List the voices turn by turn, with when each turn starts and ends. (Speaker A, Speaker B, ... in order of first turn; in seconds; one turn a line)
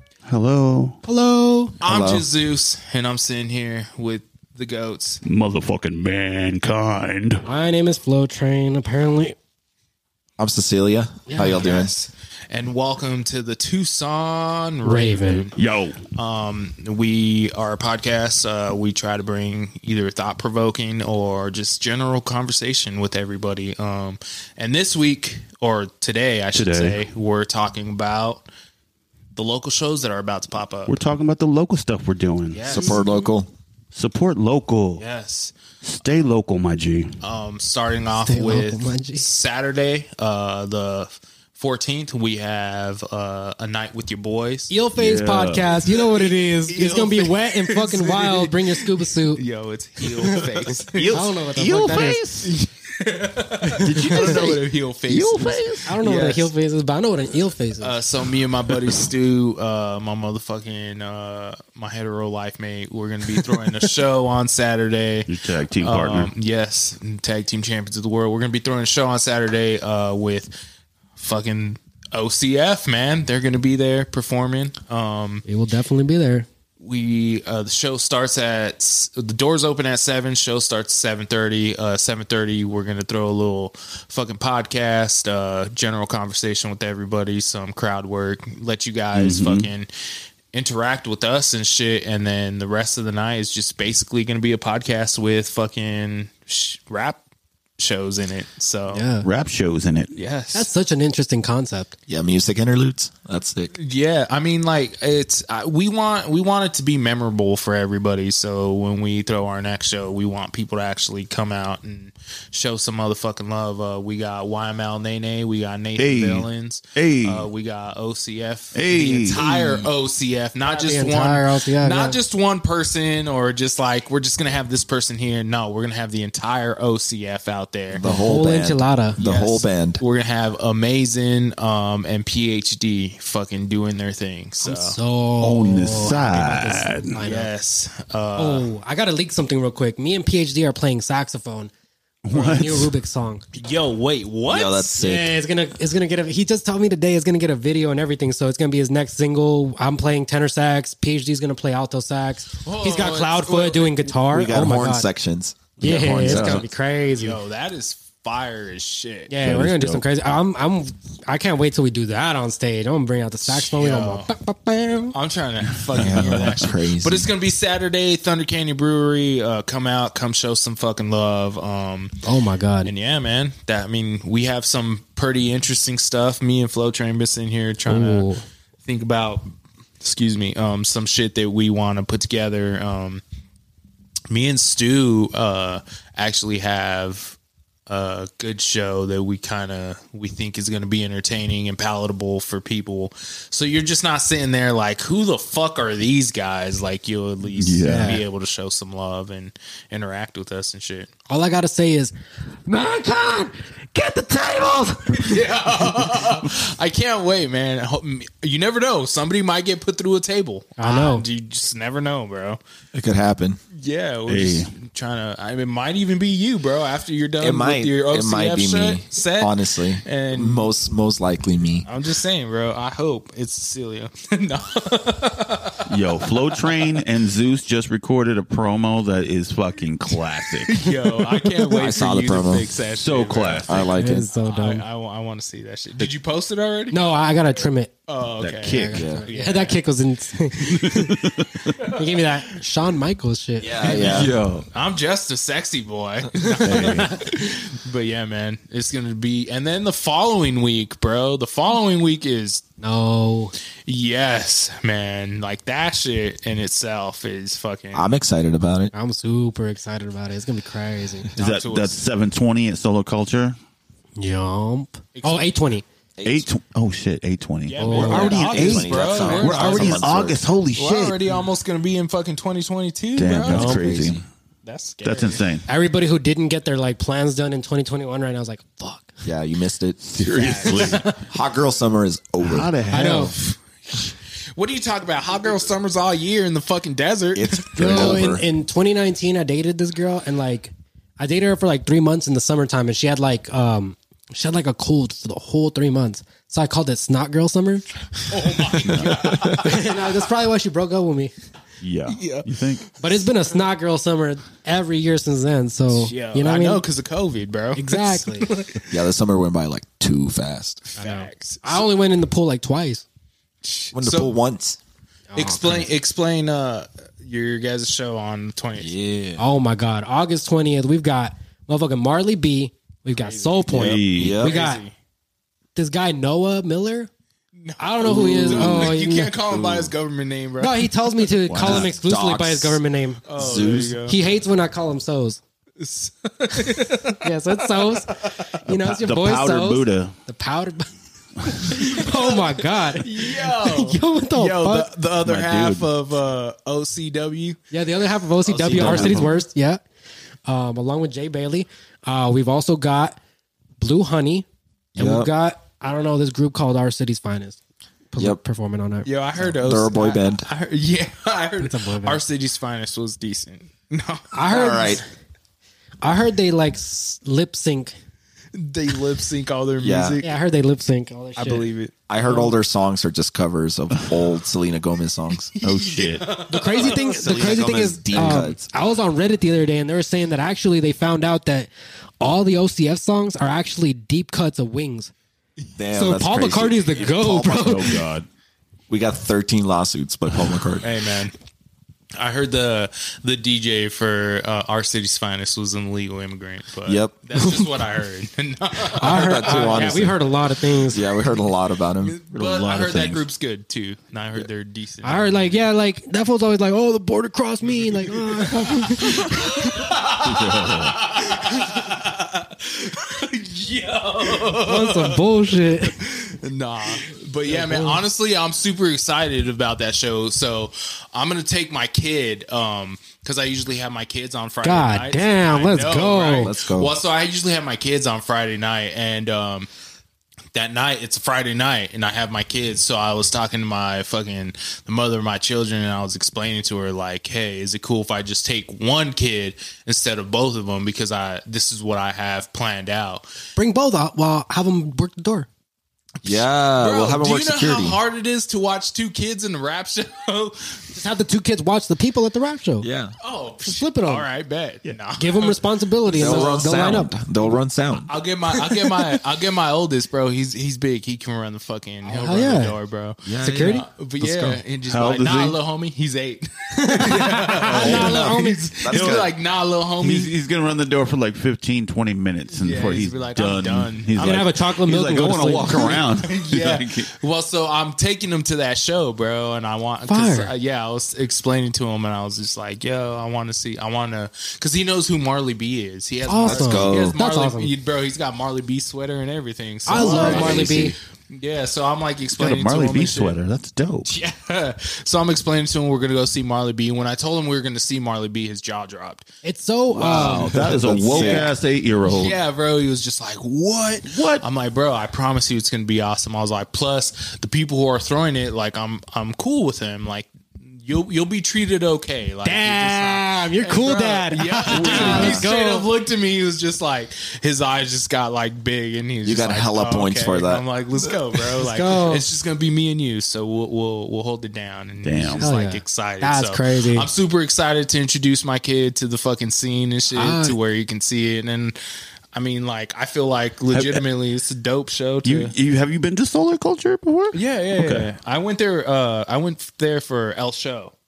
Speaker A: 0.3-1.0
Speaker B: 1.0-1.8
Speaker C: 1.8-5.2
Speaker D: 1.8-2.3
Speaker A: 5.2-7.5
Speaker B: 7.5-9.4
Speaker D: 10.4-11.9
Speaker B: 11.3-11.7
Speaker C: 11.4-15.6
Speaker B: 14.8-15.5
Speaker A: 15.6-16.0
Speaker C: 16.1-28.5
Speaker A: 26.6-27.0
Speaker C: 29.4-30.9
Speaker A: 30.9-33.0
Speaker C: 32.5-33.1
Speaker D: 32.7-33.5
Speaker A: 33.9-35.0
Speaker C: 35.0-35.5
Speaker A: 35.8-37.2
Speaker C: 37.2-44.7
Speaker B: 38.2-39.2
Speaker B: 44.7-49.4
Speaker A: 45.0-45.7
Speaker C: 45.8-51.3
Speaker A: 50.9-52.5
Speaker B: 51.1-52.2
Speaker C: 52.4-56.5
Speaker A: 53.8-55.9
Speaker B: 53.8-54.5
Speaker B: 55.9-58.0
Speaker C: 57.8-70.6
Speaker A: 65.3-66.3
Speaker C: 71.2-75.5
Speaker B: 75.5-76.5
Speaker C: 76.8-89.9
Speaker A: 89.1-89.7
Speaker C: 90.5-97.2
Speaker C: 97.8-99.0
Speaker B: 98.9-99.3
Speaker A: 99.2-100.1
Speaker C: 100.2-100.7
Speaker B: 100.5-102.0
Speaker D: 102.1-103.7
Speaker C: 103.8-128.1
Speaker A: 116.0-117.5
Speaker A: 118.7-119.4
Speaker D: 119.3-119.9
Speaker B: 120.6-122.2
Speaker D: 127.9-130.0
Speaker B: 128.0-129.2
Speaker C: 129.2-135.0
Speaker B: 134.6-137.5
Speaker A: 135.4-137.2
Speaker C: 137.2-138.7
Speaker B: 138.4-141.7
Speaker A: 142.2-142.9
Speaker B: 142.3-143.4
Speaker C: 143.5-144.9
Speaker D: 144.5-145.3
Speaker B: 145.0-155.1
Speaker C: 152.6-154.1
Speaker D: 154.2-156.7
Speaker B: 155.8-157.4
Speaker A: 155.8-156.6
Speaker C: 157.2-159.3
Speaker B: 159.3-165.2
Speaker A: 159.4-160.0
Speaker C: 163.4-164.3
Speaker C: 165.1-172.1
Speaker D: 165.9-167.3
Speaker A: 166.0-166.6
Speaker B: 172.2-172.9
Speaker C: 172.8-178.3
Speaker B: 177.9-178.4
Speaker C: 178.8-179.5
Speaker C: 180.0-183.2
Speaker C: 184.3-187.4
Speaker C: 187.9-201.1
Speaker A: 197.6-198.2
Speaker B: 197.9-198.2
Speaker B: 201.3-202.1
Speaker B: 202.7-205.4
Speaker C: 205.1-212.6
Speaker B: 210.8-211.3
Speaker D: 212.9-213.6
Speaker C: 213.8-220.7
Speaker A: 214.3-214.7
Speaker D: 217.4-221.9
Speaker C: 221.8-225.8
Speaker A: 225.9-230.8
Speaker C: 230.7-237.0
Speaker D: 231.7-232.7
Speaker A: 232.9-233.8
Speaker D: 233.7-234.3
Speaker B: 233.9-234.8
Speaker B: 236.9-237.9
Speaker C: 238.1-239.8
Speaker A: 238.4-239.1
Speaker B: 238.7-241.3
Speaker D: 238.9-239.3
Speaker A: 240.8-241.7
Speaker C: 241.8-242.2
Speaker B: 241.8-244.0
Speaker D: 243.6-244.3
Speaker C: 243.8-252.7
Speaker A: 244.0-244.7
Speaker A: 246.6-247.1
Speaker B: 246.6-247.1
Speaker B: 252.8-253.5
Speaker C: 253.9-258.1
Speaker D: 257.9-258.9
Speaker B: 258.9-261.3
Speaker C: 261.4-262.0
Speaker A: 261.4-263.6
Speaker B: 264.2-265.9
Speaker C: 265.1-265.5
Speaker D: 266.2-266.5
Speaker A: 266.2-271.2
Speaker C: 267.7-270.1
Speaker B: 267.8-269.9
Speaker D: 268.0-270.4
Speaker C: 270.8-273.8
Speaker A: 273.2-274.2
Speaker D: 273.4-274.2
Speaker B: 273.5-273.9
Speaker C: 274.6-275.4
Speaker A: 275.0-275.7
Speaker B: 275.7-279.2
Speaker D: 279.2-280.0
Speaker A: 280.0-281.1
Speaker C: 280.3-281.1
Speaker D: 281.2-282.7
Speaker A: 282.4-283.4
Speaker B: 282.9-283.3
Speaker C: 283.4-288.1
Speaker D: 287.3-288.4
Speaker B: 287.8-297.9
Speaker C: 298.3-300.0
Speaker B: 298.9-301.3
Speaker D: 298.9-299.7
Speaker A: 301.8-302.9
Speaker C: 302.1-302.6
Speaker B: 303.0-306.9
Speaker C: 305.9-309.0
Speaker B: 307.8-308.5
Speaker D: 308.9-311.0
Speaker C: 311.0-311.9
Speaker B: 311.0-313.1
Speaker C: 313.6-314.3
Speaker D: 313.9-314.8
Speaker B: 315.3-315.9
Speaker C: 315.4-319.0
Speaker D: 318.8-319.4
Speaker B: 319.4-324.8
Speaker C: 323.1-324.9
Speaker A: 323.7-324.4
Speaker D: 324.2-324.6
Speaker B: 325.8-327.1
Speaker C: 327.6-331.2
Speaker B: 327.8-329.4
Speaker D: 328.0-328.9
Speaker D: 329.6-329.9
Speaker B: 330.6-335.4
Speaker A: 331.5-331.9
Speaker D: 331.6-332.8
Speaker C: 333.3-334.2
Speaker D: 333.4-334.0
Speaker C: 335.8-338.4
Speaker B: 337.2-340.9
Speaker A: 338.6-340.1
Speaker B: 341.4-344.9
Speaker C: 341.7-347.6
Speaker A: 345.2-345.9
Speaker B: 347.7-349.8
Speaker D: 348.4-349.4
Speaker C: 348.7-349.2
Speaker B: 350.5-353.2
Speaker B: 353.8-354.5
Speaker D: 355.0-355.3
Speaker B: 355.0-357.6
Speaker B: 358.1-359.1
Speaker C: 359.0-364.2
Speaker D: 359.6-360.5
Speaker B: 361.6-362.2
Speaker B: 364.3-365.1
Speaker D: 364.5-365.0
Speaker B: 366.0-367.9
Speaker C: 368.5-370.4
Speaker D: 369.8-370.2
Speaker B: 370.2-371.7
Speaker C: 371.4-371.9
Speaker D: 372.1-375.5
Speaker C: 375.5-377.6
Speaker A: 375.6-376.2
Speaker B: 376.5-385.1
Speaker D: 376.9-378.7
Speaker D: 385.8-387.9
Speaker B: 385.9-388.1
Speaker A: 387.5-388.3
Speaker D: 388.9-390.9
Speaker C: 390.8-391.4
Speaker C: 392.2-400.1
Speaker D: 396.9-397.7
Speaker B: 399.0-401.3
Speaker D: 399.1-400.2
Speaker D: 400.9-402.4
Speaker C: 402.0-405.6
Speaker A: 402.4-403.2
Speaker B: 405.0-409.8
Speaker C: 407.6-415.2
Speaker A: 410.2-410.9
Speaker B: 414.6-416.0
Speaker C: 416.0-429.7
Speaker B: 417.5-418.0
Speaker B: 424.6-426.5
Speaker D: 426.4-426.9
Speaker C: 430.5-443.3
Speaker B: 443.6-445.5
Speaker D: 446.2-448.0
Speaker C: 446.2-450.8
Speaker B: 450.9-452.9
Speaker D: 452.8-453.1
Speaker C: 453.2-456.8
Speaker B: 453.6-454.3
Speaker B: 455.2-457.1
Speaker D: 456.1-458.1
Speaker C: 458.1-470.3
Speaker B: 462.1-462.8
Speaker D: 463.2-463.8
Speaker B: 463.4-464.6
Speaker A: 464.9-465.6
Speaker B: 466.8-468.7
Speaker A: 467.7-468.2
Speaker D: 467.7-469.3
Speaker A: 468.9-469.3
Speaker A: 470.0-477.1
Speaker C: 472.5-474.5
Speaker B: 474.2-476.1
Speaker C: 475.6-493.4
Speaker B: 480.1-480.5
Speaker B: 486.3-487.7
Speaker D: 486.4-487.2
Speaker B: 489.9-490.9
Speaker D: 489.9-490.9
Speaker A: 492.4-494.1
Speaker C: 494.1-499.2
Speaker B: 499.4-500.6
Speaker D: 499.9-501.5
Speaker A: 500.0-502.4
Speaker C: 500.9-501.5
Speaker C: 502.1-531.8
Speaker A: 504.1-504.4
Speaker B: 512.4-515.9
Speaker A: 514.7-515.5
Speaker D: 519.2-521.5
Speaker B: 521.7-522.3
Speaker A: 525.0-525.5
Speaker B: 525.4-527.1
Speaker B: 530.1-530.6
Speaker C: 532.3-535.5
Speaker A: 533.7-534.0
Speaker A: 535.2-538.1
Speaker C: 537.3-540.9